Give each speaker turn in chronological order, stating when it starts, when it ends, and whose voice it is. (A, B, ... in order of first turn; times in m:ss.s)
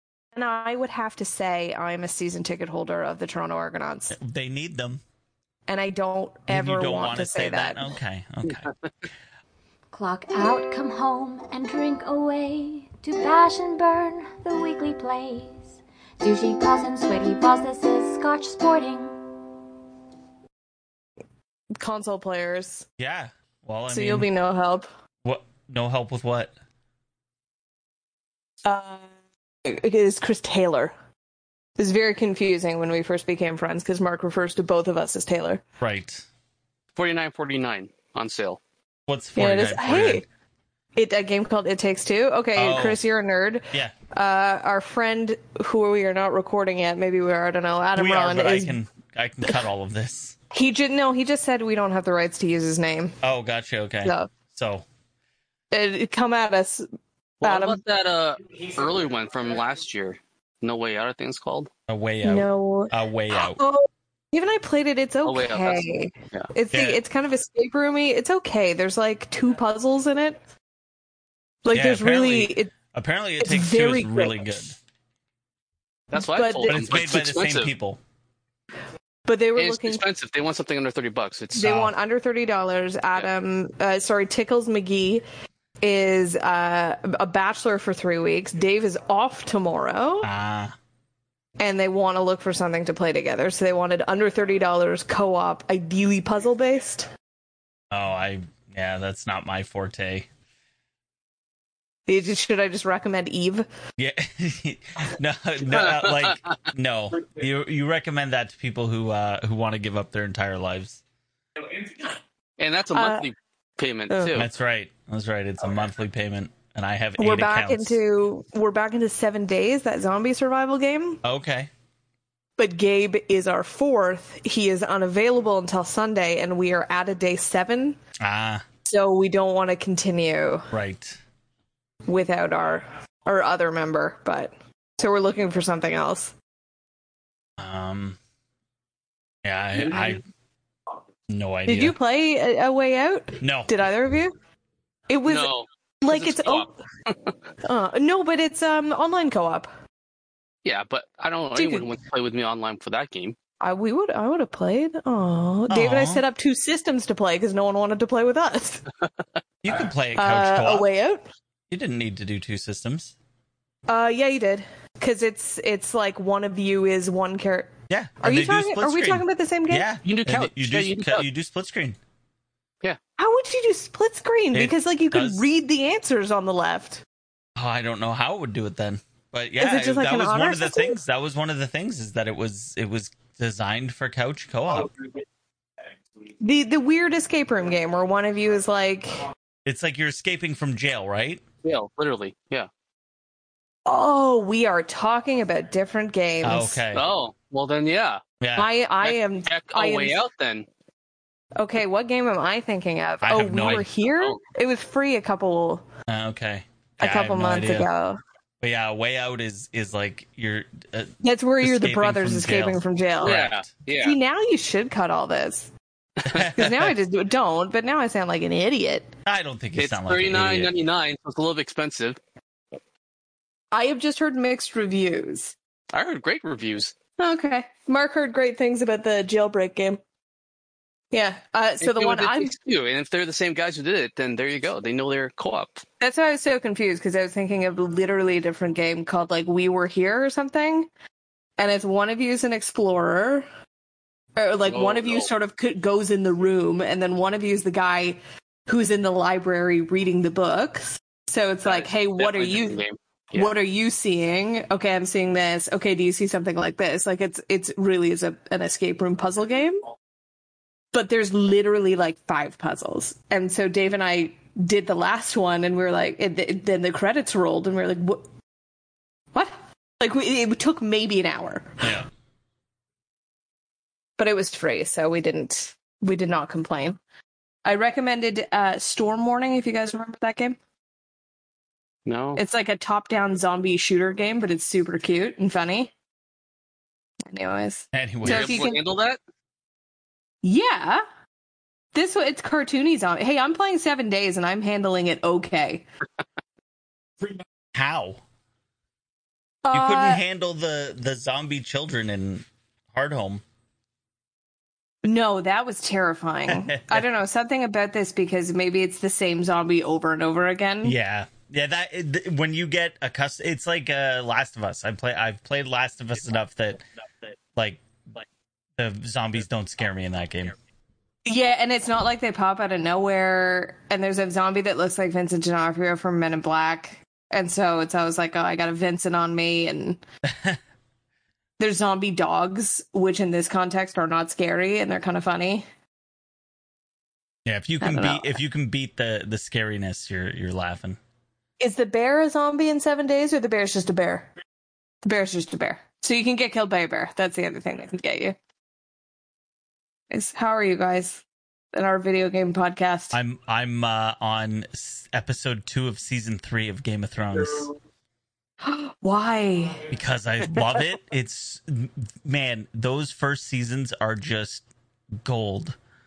0:00.3-0:04.2 A
0:04.1-0:05.0 B
0:05.7-0:07.9 A
0:06.5-0:08.7 B
0:09.9-0:15.6 C
0:16.2-0:19.1 C
0:21.8-0:22.8 A
0:23.0-0:24.3 B
0:23.9-0:24.9 A
0:25.2-0:26.5 B
0:28.6-0:29.1 A
0:29.6-0:30.9 A
0:31.8-0:35.6 A
0:35.8-0:36.3 B
0:37.0-0:38.6 D
0:39.1-0:40.2 B
0:39.4-0:40.2 A
0:40.9-0:48.8 A
0:42.6-0:43.0 B
0:47.9-0:50.4 B
0:50.5-0:53.2 A
0:53.2-0:54.8 B
0:54.0-0:54.3 A
0:55.7-0:56.8 A
0:57.4-1:01.7 D
0:57.4-0:57.8 A
1:01.9-1:03.6 B
1:02.2-1:10.4 A
1:05.2-1:06.5 D
1:06.7-1:07.0 B
1:11.6-1:12.7 A
1:11.7-1:14.8 B
1:13.4-1:14.6 A
1:16.1-1:17.7 D
1:16.1-1:16.8 A
1:16.7-1:18.0 B
1:19.3-1:20.0 A
1:19.6-1:21.7 D
1:21.5-1:25.2 A
1:21.6-1:21.9 B
1:25.8-1:30.3 A
1:30.2-1:30.7 B
1:31.6-1:37.1 A
1:37.9-1:40.3 B
1:42.1-1:43.6 A
1:44.0-1:51.0 B
1:45.7-1:46.5 D
1:52.6-1:54.5 D
1:52.9-1:53.3 A
1:54.1-1:54.4 A
1:54.3-1:58.0 B
1:57.2-2:01.2 A
2:01.2-2:01.7 B
2:02.6-2:08.0 A
2:08.2-2:08.6 B
2:08.8-2:10.7 A
2:10.7-2:11.2 B
2:12.1-2:16.3 A
2:17.6-2:18.2 B
2:19.4-2:20.2 B
2:21.3-2:22.0 B
2:21.6-2:24.3 A
2:23.4-2:23.7 B
2:25.1-2:26.7 A
2:25.3-2:26.7 D
2:27.6-2:29.7 A
2:30.6-2:33.4 D
2:31.5-2:31.9 A
2:33.6-2:38.8 A
2:35.7-2:36.2 B
2:39.6-2:40.9 B
2:40.1-2:41.2 A
2:41.7-2:43.1 B
2:43.9-2:49.9 A
2:47.9-2:52.0 B
2:50.0-2:51.2 D
2:53.2-2:57.0 A
2:54.5-2:55.4 B
2:57.6-3:04.9 B
2:59.6-3:01.0 A
3:06.4-3:09.2 A
3:09.6-3:11.4 B
3:11.6-3:12.7 D
3:13.8-3:16.8 A
3:16.4-3:17.0 B
3:16.9-3:18.2 D
3:18.4-3:18.7 B
3:18.6-3:20.2 A
3:19.0-3:20.6 D
3:21.6-3:25.8 A
3:23.2-3:23.9 B
3:23.6-3:24.4 D
3:26.1-3:27.9 B
3:27.0-3:28.2 A
3:28.6-3:33.7 B
3:31.2-3:33.4 A
3:33.2-3:34.2 D
3:34.0-3:35.7 A
3:36.2-3:36.7 D
3:36.3-3:36.9 B
3:36.5-3:39.1 A
3:39.2-3:40.7 B
3:39.8-3:42.2 D
3:43.7-3:45.5 A
3:45.9-3:46.9 D
3:47.2-3:50.0 A
3:51.1-3:52.5 A
3:51.8-3:55.8 D
3:56.0-4:00.9 A
4:01.6-4:03.5 A
4:04.4-4:12.8 A
4:04.6-4:05.3 D
4:11.6-4:13.5 D
4:13.3-4:19.8 A
4:20.9-4:28.2 A
4:29.3-4:32.0 A
4:34.2-4:37.0 A
4:37.6-4:40.6 A
4:42.0-4:42.4 D
4:42.4-4:45.9 A
4:47.3-4:48.8 A
4:47.9-4:48.7 B
4:48.2-4:49.2 D
4:50.4-4:51.0 A
4:51.9-4:55.8 A
4:57.7-4:58.2 B
4:59.6-5:00.2 A
4:59.7-5:03.4 B
5:05.0-5:11.0 A
5:06.5-5:07.0 B
5:10.8-5:16.8 B
5:17.6-5:17.8 B
5:18.8-5:20.5 B
5:21.2-5:30.0 A
5:30.3-5:30.6 B
5:31.6-5:35.6 A
5:37.4-5:41.0 B
5:37.8-5:38.4 A
5:41.6-5:44.3 A
5:45.0-5:48.4 A
5:50.1-5:51.2 A
5:51.7-5:53.2 A
5:53.1-5:57.7 B
5:58.6-5:59.9 A
5:59.9-6:04.6 B
6:05.2-6:05.8 B